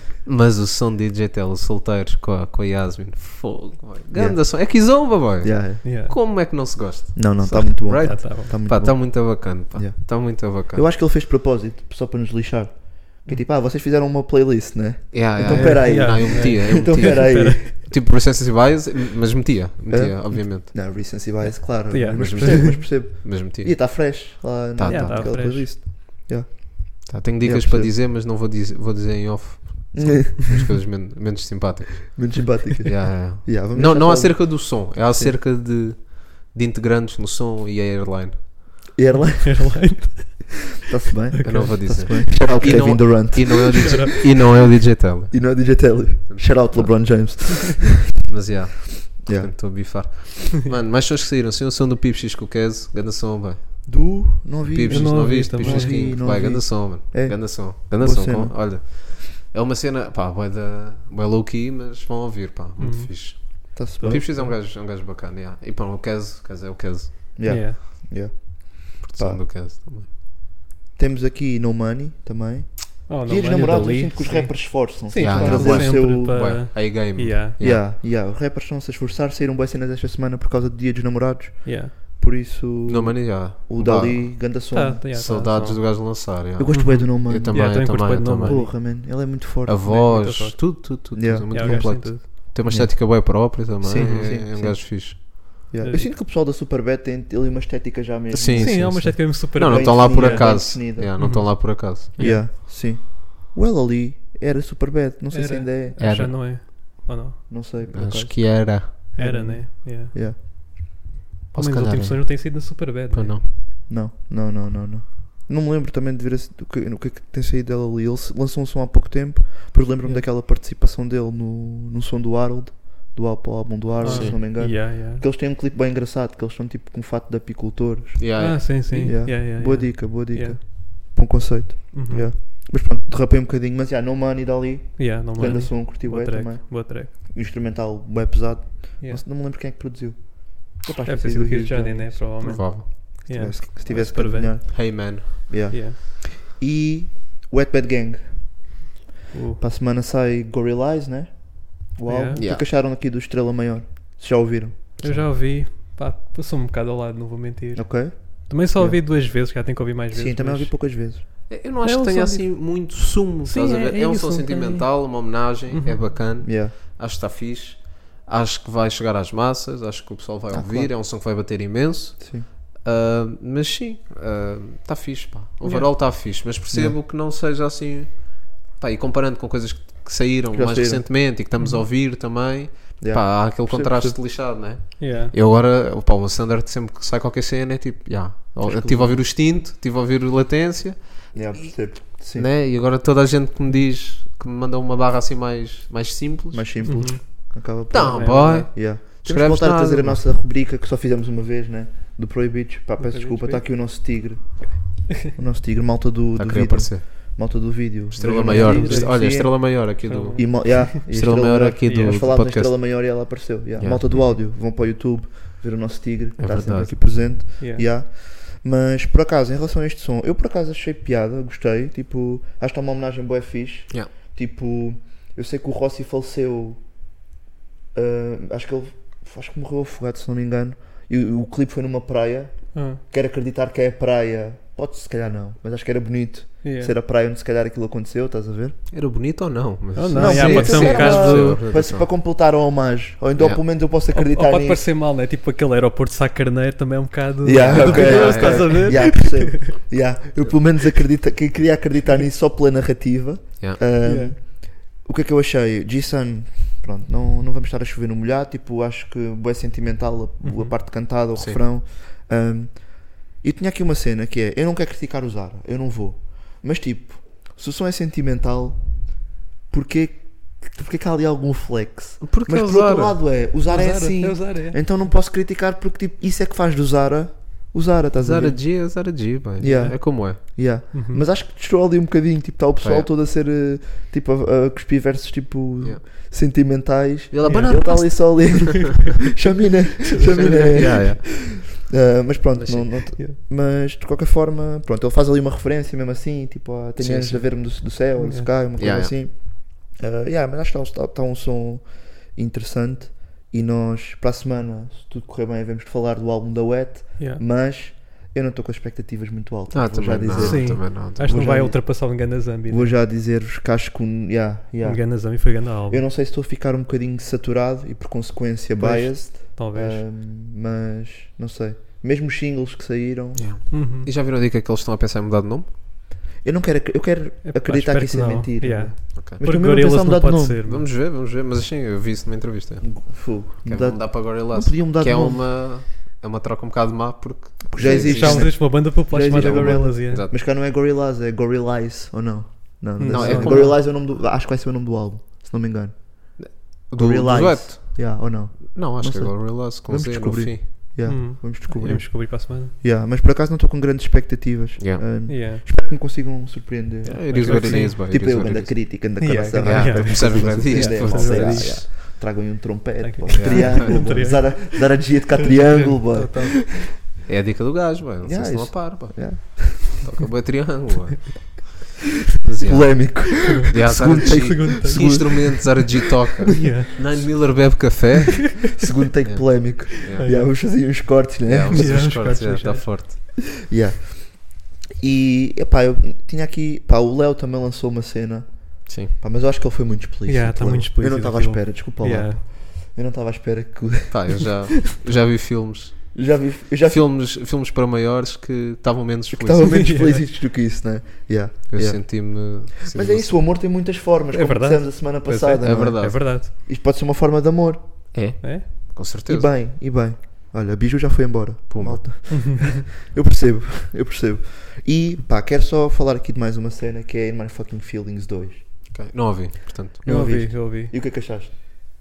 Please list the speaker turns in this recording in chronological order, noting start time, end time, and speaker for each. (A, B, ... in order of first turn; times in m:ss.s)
0:00.2-0:10.8 A
0:04.1-0:05.8 B
0:05.8-0:06.1 C
0:07.1-0:17.7 B
0:07.4-0:08.5 C
0:15.1-0:21.4 A
0:15.5-0:17.6 C
0:19.9-0:27.9 B
0:21.4-0:22.8 C
0:22.0-0:24.2 A
0:24.8-0:25.6 A
0:24.9-0:25.7 C
0:27.0-0:38.5 A
0:29.9-0:30.6 B
0:32.1-0:35.4 B
0:38.9-0:40.3 B
0:39.4-0:40.8 C
0:40.9-0:44.0 B
0:41.3-0:42.9 C
0:41.4-0:47.4 A
0:43.5-0:44.1 C
0:45.3-0:48.0 B
0:48.2-1:07.6 A
0:49.2-0:49.8 B
0:53.8-0:58.6 B
0:54.9-0:56.1 C
1:02.8-1:04.6 C
1:03.7-1:04.3 B
1:07.4-1:09.4 B
1:07.4-1:07.8 C
1:09.0-1:10.1 A
1:11.0-1:16.6 B
1:13.1-1:17.6 C
1:15.2-1:17.8 A
1:17.6-1:25.4 B
1:21.6-1:21.9 C
1:22.8-1:28.8 A
1:24.7-1:25.8 C
1:26.6-1:27.8 B
1:26.7-1:28.8 C
1:28.4-1:29.9 B
1:29.6-1:35.3 A
1:29.8-1:30.8 C
1:31.1-1:32.1 B
1:31.5-1:32.2 C
1:32.7-1:41.2 B
1:33.9-1:34.3 C
1:35.8-1:36.1 C
1:38.3-1:42.4 A
1:38.6-1:42.5 C
1:42.2-1:46.3 B
1:45.3-1:47.4 C
1:46.0-1:46.4 A
1:47.5-1:50.4 B
1:47.9-1:48.9 A
1:49.2-1:50.1 C
1:51.5-1:53.5 A
1:51.5-1:53.4 C
1:53.9-2:28.7 B
2:04.0-2:05.2 C
2:04.0-2:04.4 A
2:08.2-2:09.1 A
2:08.4-2:10.6 C
2:11.9-2:12.3 C
2:15.0-2:17.1 C
2:21.0-2:24.6 C
2:22.4-2:23.1 A
2:24.7-2:25.8 A
2:25.7-2:26.0 C
2:29.3-2:29.6 C
2:29.6-2:34.8 B
2:32.0-2:32.4 C
2:32.4-2:32.6 A
2:35.0-2:35.3 A
2:35.0-2:42.9 C
2:37.7-2:39.0 B
2:40.1-2:41.2 B
2:41.5-3:17.4 A
2:43.4-2:46.1 C
2:46.4-2:46.7 B
2:50.5-2:50.9 B
2:52.2-2:52.5 B
2:55.6-2:55.9 C
2:56.7-2:57.0 B
3:00.5-3:01.1 B
3:01.6-3:01.8 C
3:03.0-3:04.2 B
3:05.0-3:05.3 C
3:08.6-3:09.2 B
3:11.3-3:12.5 B
3:16.5-3:46.8 B
3:16.8-3:18.7 C
3:17.9-3:20.3 A
3:23.0-3:23.6 C
3:26.4-3:27.4 A
3:28.1-3:33.2 A
3:28.4-3:31.0 C
3:31.8-3:32.2 C
3:33.8-3:34.3 A
3:36.4-3:37.4 A
3:37.6-3:37.8 C
3:47.9-3:58.8 B
3:52.7-3:53.0 C
3:56.6-3:56.9 C
3:58.9-4:02.1 A
4:00.0-4:01.6 C
4:00.1-4:04.8 B
4:04.1-4:09.7 C
4:07.4-4:29.1 B
4:07.5-4:09.0 A
4:14.0-4:14.4 C
4:20.4-4:20.7 C
4:21.3-4:21.6 A
4:29.7-4:38.9 B
4:32.2-4:33.2 A
4:33.6-4:34.8 C
4:38.2-4:40.4 A
4:39.6-5:23.7 B
4:39.6-4:40.0 C
4:40.9-4:41.2 C
4:42.8-4:43.1 A
4:47.3-4:48.8 A
4:47.5-4:47.8 C
4:50.2-4:51.1 C
4:50.2-4:51.4 A
4:52.6-4:53.1 A
4:57.0-4:57.5 A
4:58.2-4:58.5 C
4:58.8-4:59.1 A
5:09.7-5:11.3 A
5:10.3-5:12.9 C
5:14.8-5:16.0 C
5:18.8-5:20.0 C
5:23.4-5:25.7 A
5:23.7-5:24.1 C
5:26.4-5:30.6 B
5:27.4-5:30.8 C
5:30.7-5:40.3 A
5:32.8-5:35.4 B
5:37.7-6:06.7 B
5:37.8-5:40.2 C
5:43.0-5:43.8 C
5:43.0-5:43.8 A
5:46.4-5:50.6 A
5:51.0-5:52.7 C
5:54.8-5:55.2 A
5:55.3-5:55.6 C
5:57.0-6:01.8 A
5:57.2-5:58.0 C
5:59.2-6:02.0 C
6:03.0-6:05.1 C
6:03.3-6:04.3 A
6:05.7-6:06.8 C
6:07.2-6:11.7 A
6:08.2-6:10.0 B
6:12.4-6:20.2 A
6:12.6-6:15.9 B
6:14.2-6:15.5 C
6:16.5-6:16.9 C
6:18.8-6:22.2 B
6:20.2-6:20.5 C
6:21.5-6:23.3 A
6:21.7-6:22.9 C
6:23.6-6:34.5 B
6:28.9-6:29.1 A
6:30.2-6:32.4 C
6:34.1-6:39.9 A
6:36.1-6:37.1 B
6:39.3-6:48.1 B
6:39.6-6:40.2 C
6:41.7-6:43.5 A
6:44.3-6:46.5 C
6:45.3-6:46.4 A
6:48.1-6:49.5 A
6:48.4-6:48.6 C
6:49.2-6:58.6 B
6:51.7-6:52.3 A
6:52.3-6:52.8 C
6:58.9-7:00.0 A
7:00.0-7:01.5 B
7:00.0-7:00.9 C